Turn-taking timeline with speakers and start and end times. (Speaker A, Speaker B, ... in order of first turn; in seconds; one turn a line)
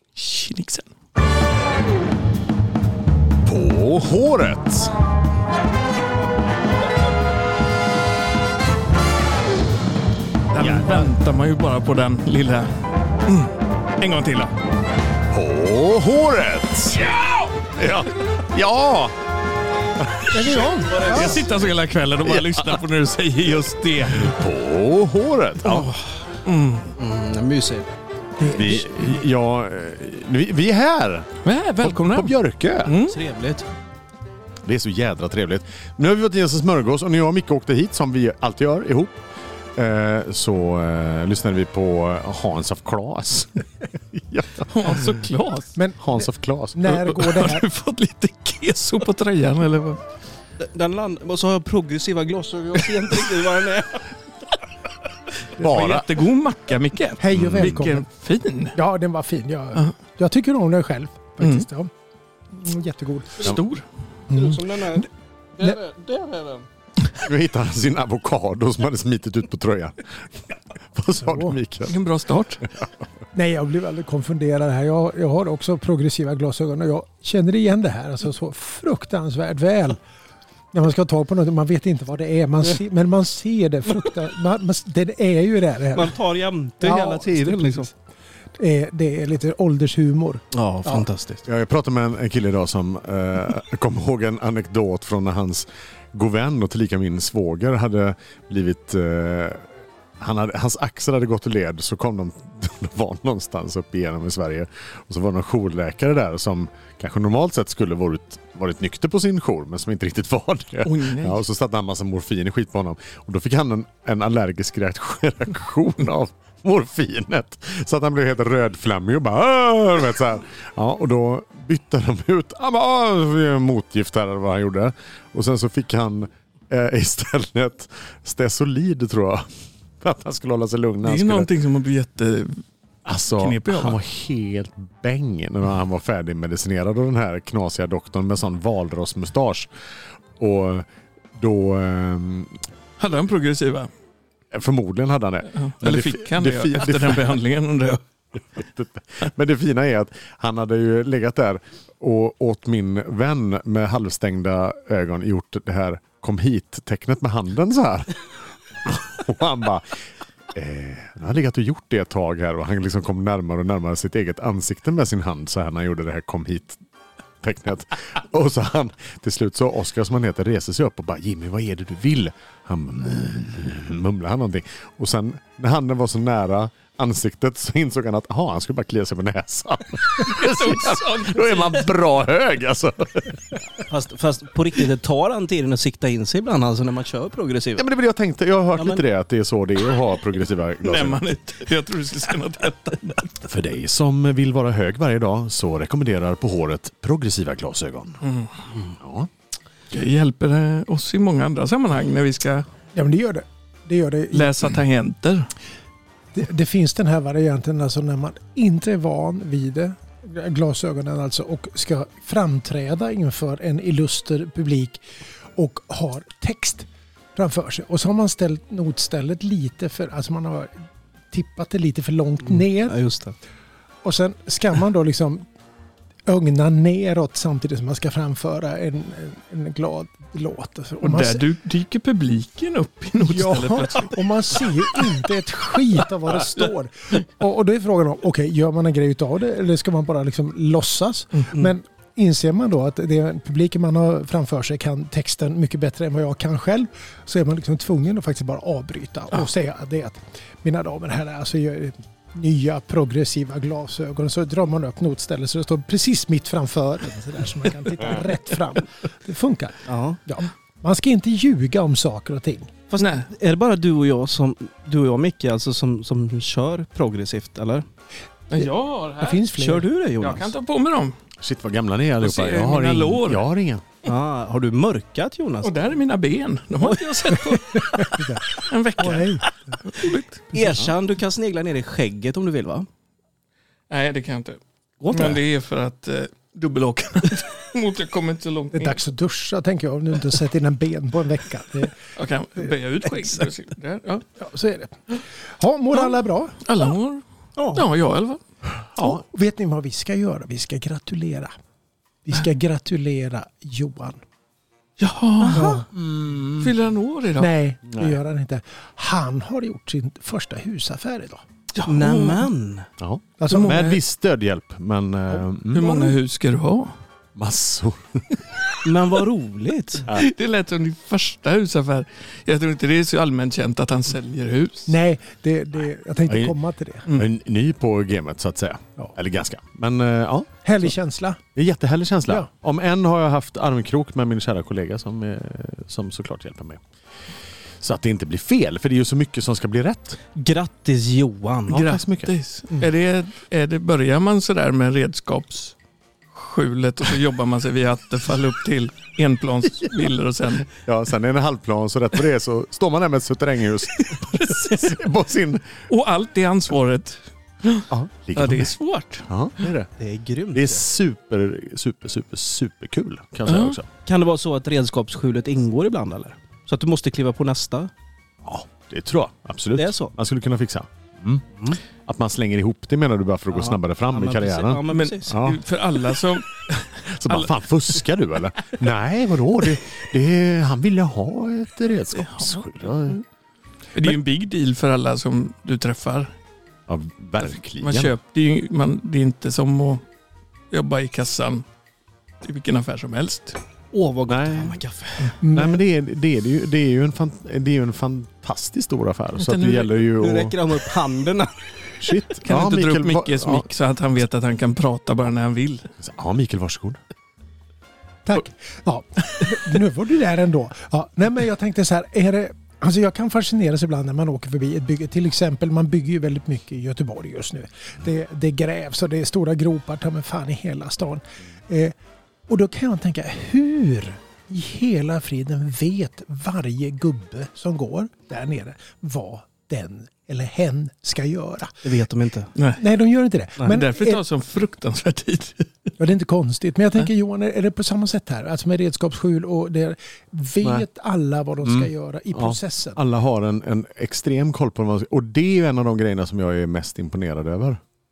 Speaker A: 0.1-0.9
Speaker B: 3.4-4.9
Speaker A: 10.5-12.7
Speaker B: 10.6-11.1
Speaker A: 13.2-14.5
Speaker B: 15.3-19.1
Speaker B: 20.1-20.4
Speaker C: 20.3-21.4
Speaker A: 20.4-24.3
Speaker D: 20.9-21.4
Speaker B: 22.2-22.8
Speaker B: 24.1-25.9
Speaker A: 26.4-26.9
Speaker D: 27.0-27.9
Speaker C: 28.4-28.8
Speaker B: 28.5-31.3
Speaker A: 31.4-32.3
Speaker B: 31.8-32.9
Speaker A: 32.8-33.2
Speaker D: 33.1-33.7
Speaker B: 34.6-39.2
Speaker B: 39.8-45.0
Speaker A: 44.7-45.8
Speaker C: 45.8-47.6
Speaker B: 46.0-46.8
Speaker A: 46.9-50.0
Speaker D: 50.6-54.1
Speaker A: 55.5-58.8
Speaker B: 55.6-56.1
Speaker C: 57.2-58.0
Speaker B: 57.3-57.9
Speaker C: 58.7-61.9
Speaker A: 61.4-61.6
Speaker C: 62.5-63.5
Speaker A: 63.4-63.8
Speaker C: 64.3-65.0
Speaker D: 64.3-66.6
Speaker B: 67.2-70.3
Speaker B: 70.9-72.0
Speaker C: 71.2-71.5
Speaker A: 71.9-72.6
Speaker C: 73.3-80.0
Speaker C: 80.7-86.2
Speaker D: 85.9-87.9
Speaker C: 86.8-87.9
Speaker C: 88.6-91.1
Speaker D: 90.5-91.4
Speaker B: 91.4-99.7
Speaker B: 100.2-129.4
Speaker A: 110.8-111.4
Speaker B: 130.0-131.5
Speaker A: 131.0-132.6
Speaker B: 133.1-139.7
Speaker A: 133.4-134.0
Speaker B: 140.4-142.6
Speaker A: 143.0-143.9
Speaker B: 144.5-147.4
Speaker A: 145.5-148.0
Speaker B: 148.6-158.1
Speaker B: 158.8-160.0
Speaker B: 160.5-166.8
Speaker B: 167.4-183.3
Speaker A: 180.2-181.8
Speaker D: 183.9-187.8
Speaker B: 187.8-191.2
Speaker D: 188.8-189.0
Speaker A: 190.8-193.3
Speaker B: 193.4-198.2
Speaker A: 198.2-198.5
Speaker B: 199.0-199.3
Speaker A: 199.9-202.7
Speaker C: 202.9-204.5
Speaker A: 204.3-205.5
Speaker C: 206.3-215.0
Speaker C: 215.6-220.7
Speaker C: 221.3-223.0
Speaker D: 222.4-223.3
Speaker C: 224.0-225.4
Speaker C: 226.3-231.4
Speaker A: 231.0-234.7
Speaker C: 233.2-262.8
Speaker D: 259.9-260.2
Speaker D: 262.9-267.9
Speaker A: 263.0-263.3
Speaker A: 268.5-269.4
Speaker C: 269.2-269.9
Speaker D: 269.5-270.5
Speaker A: 270.2-271.1
Speaker B: 271.4-273.8
Speaker A: 272.2-273.4
Speaker D: 274.0-275.9
Speaker A: 275.6-278.1
Speaker C: 277.5-278.4
Speaker A: 278.6-280.5
Speaker C: 279.0-279.4
Speaker D: 280.5-282.9
Speaker A: 283.9-284.6
Speaker D: 285.0-285.4
Speaker A: 285.1-289.0
Speaker C: 288.7-291.9
Speaker A: 292.1-294.2
Speaker C: 293.0-293.4
Speaker C: 294.4-296.5
Speaker A: 295.9-297.2
Speaker D: 297.6-297.9
Speaker A: 297.7-298.4
Speaker C: 298.9-301.5
Speaker C: 302.2-304.2
Speaker A: 305.0-305.8
Speaker D: 305.4-305.8
Speaker C: 305.5-305.9
Speaker B: 305.9-306.7
Speaker A: 306.6-307.5
Speaker C: 307.4-311.4
Speaker B: 307.9-308.2
Speaker A: 311.7-312.5
Speaker D: 311.8-312.9
Speaker B: 313.0-315.8
Speaker C: 313.4-314.0
Speaker A: 313.5-313.8
Speaker A: 315.7-316.9
Speaker D: 315.8-316.1
Speaker B: 317.4-318.4
Speaker D: 318.8-320.1
Speaker A: 320.1-324.9
Speaker C: 324.9-327.0
Speaker B: 326.3-326.5
Speaker B: 327.1-330.5
Speaker C: 330.6-331.4
Speaker B: 331.5-336.8
Speaker B: 337.8-340.2
Speaker D: 340.4-341.9
Speaker B: 341.7-342.3
Speaker A: 341.7-345.7
Speaker A: 346.3-350.7
Speaker B: 350.7-355.7
Speaker A: 353.9-355.0
Speaker A: 355.9-359.3
Speaker B: 357.9-358.7
Speaker B: 359.3-359.9
Speaker D: 360.0-360.8
Speaker B: 360.5-363.9
Speaker A: 363.4-363.8
Speaker D: 364.1-367.9
Speaker B: 368.4-371.4
Speaker D: 369.7-370.1
Speaker B: 372.0-375.6
Speaker D: 373.5-375.4
Speaker A: 374.9-377.5
Speaker B: 377.1-383.2
Speaker A: 383.9-386.3
Speaker B: 386.9-388.1
Speaker A: 387.4-390.0
Speaker A: 390.7-391.6
Speaker A: 392.4-393.6
Speaker D: 393.9-395.3
Speaker B: 394.3-394.8
Speaker C: 395.4-395.8
Speaker B: 395.5-400.5
Speaker A: 399.4-400.0
Speaker D: 400.1-401.5
Speaker B: 402.0-403.7
Speaker A: 402.4-405.8
Speaker B: 406.0-407.0
Speaker C: 408.2-421.9
Speaker C: 422.5-431.9
Speaker D: 431.8-432.5
Speaker A: 432.6-432.8
Speaker C: 432.8-434.2
Speaker A: 433.6-435.9
Speaker C: 436.0-443.0
Speaker B: 441.6-447.8